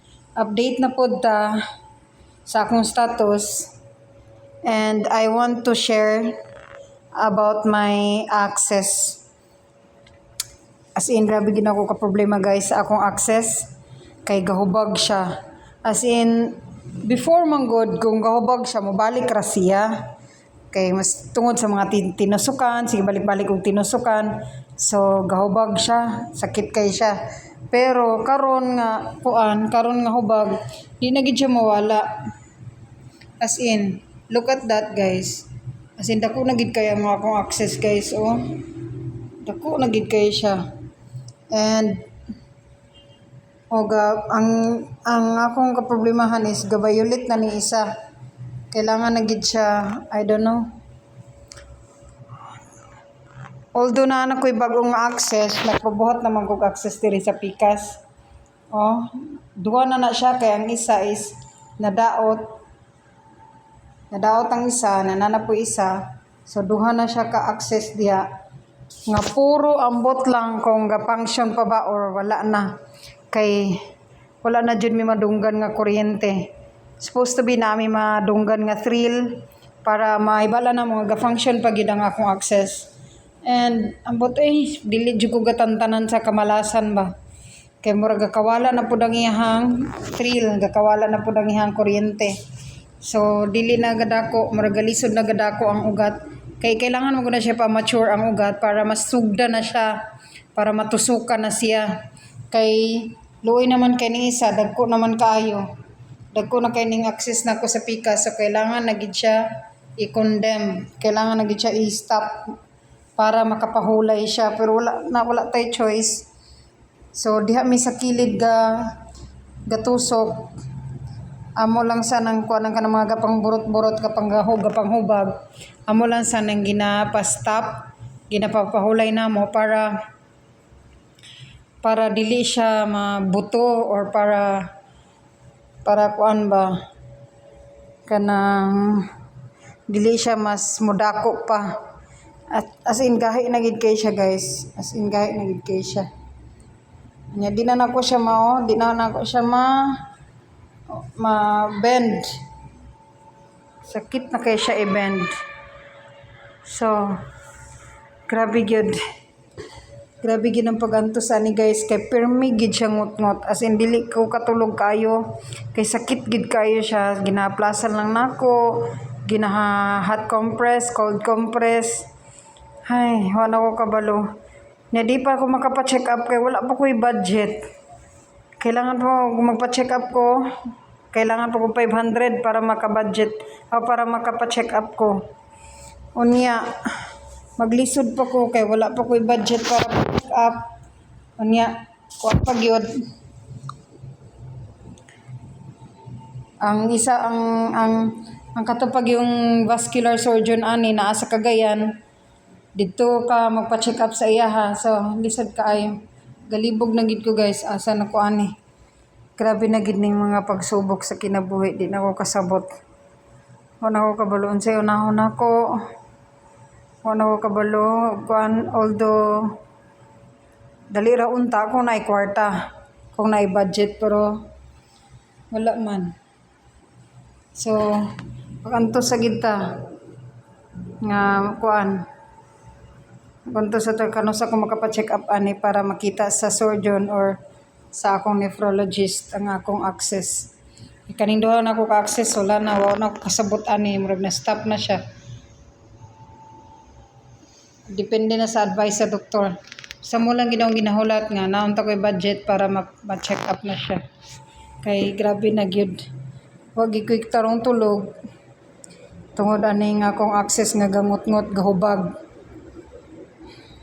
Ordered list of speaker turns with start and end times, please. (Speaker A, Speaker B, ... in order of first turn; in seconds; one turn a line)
Speaker A: 0.4-1.6
Speaker A: 2.5-3.7
Speaker A: 4.7-6.4
Speaker A: 7.2-9.2
Speaker A: 11.0-13.7
Speaker A: 14.2-15.3
Speaker A: 15.8-19.9
Speaker A: 20.7-27.2
Speaker A: 27.7-32.1
Speaker A: 33.4-35.5
Speaker A: 36.0-38.7
Speaker A: 39.4-40.6
Speaker A: 41.5-42.0
Speaker A: 43.7-47.9
Speaker A: 48.7-50.7
Speaker A: 53.8-58.0
Speaker A: 58.7-62.5
Speaker A: 64.1-68.3
Speaker A: 69.1-72.7
Speaker A: 73.3-73.8
Speaker A: 74.4-76.5
Speaker A: 77.0-82.9
Speaker A: 83.5-87.1
Speaker A: 87.8-92.4
Speaker A: 93.0-100.0
Speaker A: 100.5-101.9
Speaker A: 102.5-105.7
Speaker A: 106.3-109.5
Speaker A: 110.0-112.5
Speaker A: 113.2-116.2
Speaker A: 117.1-119.0
Speaker A: 119.7-120.5
Speaker A: 121.6-129.9
Speaker A: 131.8-134.7
Speaker A: 135.8-136.7
Speaker A: 138.1-139.1
Speaker A: 139.9-141.8
Speaker A: 142.5-146.1
Speaker A: 147.3-150.0
Speaker A: 150.9-152.4
Speaker A: 153.8-155.4
Speaker A: 156.7-157.2
Speaker A: 158.3-159.0
Speaker A: 160.2-165.2
Speaker A: 165.7-172.1
Speaker A: 172.9-174.3
Speaker A: 174.9-177.7
Speaker A: 178.6-180.5
Speaker A: 181.1-185.2
Speaker A: 186.2-190.7
Speaker A: 191.4-193.0
Speaker A: 196.6-201.9
Speaker A: 202.8-206.0
Speaker A: 206.5-208.5
Speaker A: 209.4-212.8
Speaker A: 213.8-215.9
Speaker A: 217.0-219.6
Speaker A: 220.9-222.5
Speaker A: 223.1-224.4
Speaker A: 225.5-226.2
Speaker A: 227.6-229.9
Speaker A: 231.0-232.1
Speaker A: 233.5-237.4
Speaker A: 237.9-240.5
Speaker A: 241.1-245.0
Speaker A: 247.9-254.0
Speaker A: 254.8-256.1
Speaker A: 256.8-258.1
Speaker A: 259.4-262.1